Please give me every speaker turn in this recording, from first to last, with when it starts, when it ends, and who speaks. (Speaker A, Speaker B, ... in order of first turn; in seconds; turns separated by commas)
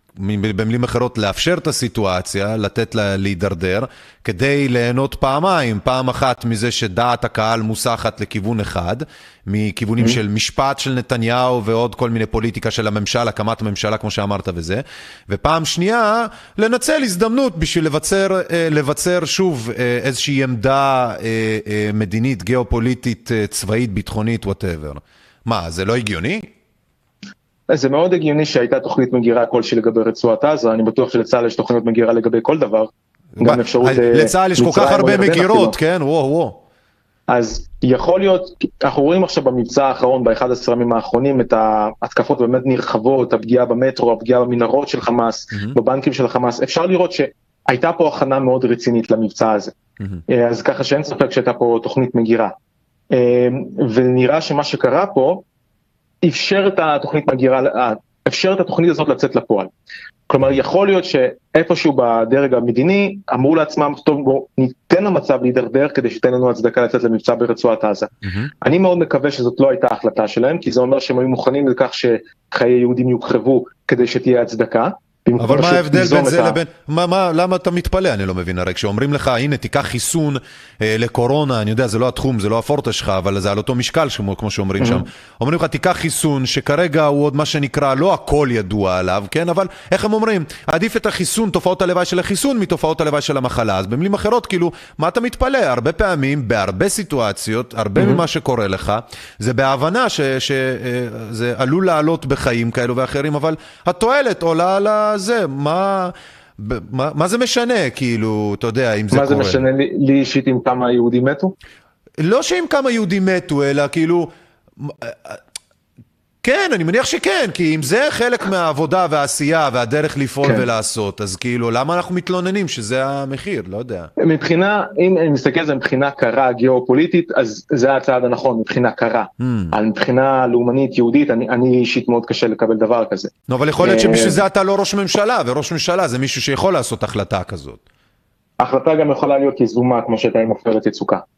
Speaker A: 0.2-26.5, Speaker B: 27.7-32.9, Speaker A: 33.4-36.6, Speaker B: 33.4-35.8, Speaker B: 37.3-49.8, Speaker B: 50.3-52.5, Speaker B: 53.1-55.4, Speaker B: 56.2-59.7, Speaker B: 60.3-76.6, Speaker A: 75.4-109.7, Speaker B: 84.8-85.0, Speaker B: 109.1-111.5, Speaker A: 112.2-115.4, Speaker A: 116.4-124.1, Speaker B: 124.2-134.4, Speaker A: 129.4-129.7, Speaker A: 133.5-137.8, Speaker B: 138.6-141.2